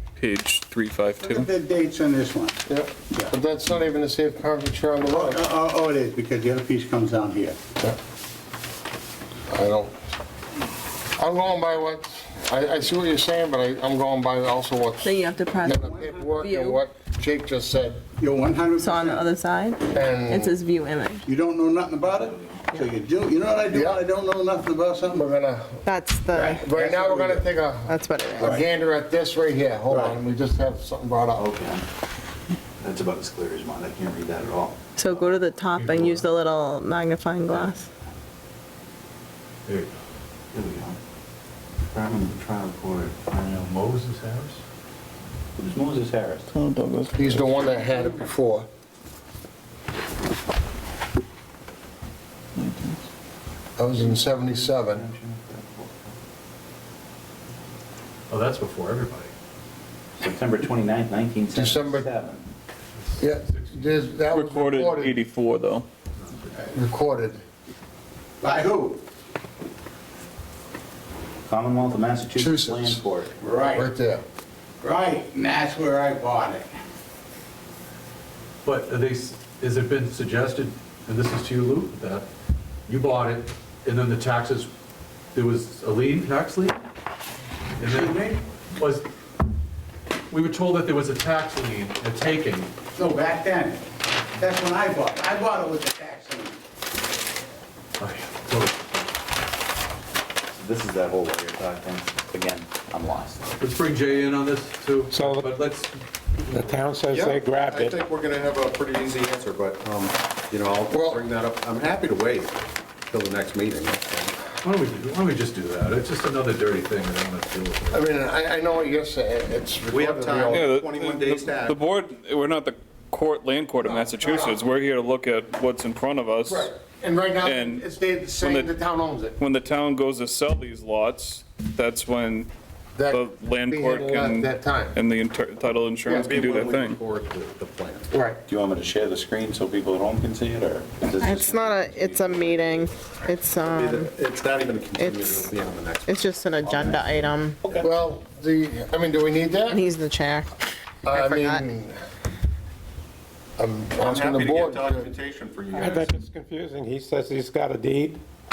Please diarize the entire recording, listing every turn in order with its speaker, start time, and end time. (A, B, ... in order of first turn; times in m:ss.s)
0:00.2-0:01.5 A
0:01.2-0:02.6 B
0:02.7-0:05.4 C
0:05.0-0:07.6 B
0:09.5-0:10.0 C
0:11.2-0:18.0 C
0:15.0-0:16.8 D
0:15.6-0:16.4 B
0:18.2-0:19.3 B
0:18.8-0:21.2 D
0:19.9-0:20.5 C
0:21.3-0:25.2 B
0:22.0-0:22.7 E
0:23.7-0:24.0 C
0:25.1-0:25.8 C
0:25.8-0:26.7 D
0:26.3-0:27.5 B
0:26.4-0:31.4 C
0:27.8-0:28.6 D
0:28.4-0:28.7 B
0:29.9-0:30.2 B
0:31.3-0:31.8 E
0:32.8-0:35.4 E
0:35.0-0:37.9 D
0:35.8-0:36.3 F
0:37.5-0:37.8 E
0:39.6-0:39.9 F
0:40.5-0:41.0 E
0:41.9-0:43.7 E
0:43.4-0:44.6 F
0:45.6-0:46.6 E
0:46.5-0:47.6 A
0:47.1-0:48.7 C
0:52.6-0:53.0 A
0:53.8-0:55.1 C
0:53.9-0:56.2 E
0:58.3-0:59.3 F
1:00.2-1:02.4 E
1:01.5-1:02.1 C
1:03.0-1:04.1 F
1:03.2-1:05.2 C
1:04.3-1:05.9 A
1:06.2-1:06.5 F
1:06.7-1:07.4 C
1:08.4-1:09.0 B
1:11.5-1:13.4 E
1:12.4-1:13.0 C
1:13.4-1:13.9 B
1:13.7-1:14.2 C
1:14.8-1:16.7 B
1:18.6-1:22.3 F
1:22.9-1:24.7 F
1:25.3-1:26.8 F
1:27.8-1:29.0 F
1:27.8-1:28.4 B
1:30.3-1:32.7 F
1:33.0-1:36.6 B
1:38.0-1:39.1 F
1:40.5-1:43.6 E
1:43.6-1:46.8 F
1:45.1-1:45.5 G
1:46.5-1:48.0 G
1:47.1-1:54.4 H
1:50.9-1:51.2 C
1:54.6-1:58.0 F
1:57.9-2:00.7 C
1:59.9-2:01.8 H
2:00.5-2:06.7 A
2:03.8-2:04.5 C
2:06.5-2:09.4 C
2:07.4-2:08.8 A
2:09.4-2:12.5 A
2:12.9-2:15.0 C
2:13.1-2:17.0 A
2:16.0-2:18.1 H
2:16.1-2:16.3 C
2:18.1-2:18.4 C
2:18.5-2:22.9 E
2:21.2-2:24.1 D
2:23.6-2:27.1 H
2:24.9-2:25.5 D
2:26.0-2:27.6 D
2:27.0-2:27.9 E
2:27.7-2:29.8 C
2:29.7-2:30.5 D
2:31.0-2:32.0 C
2:31.1-2:31.6 D
2:33.6-2:35.1 C
2:34.0-2:36.1 H
2:35.7-2:38.2 G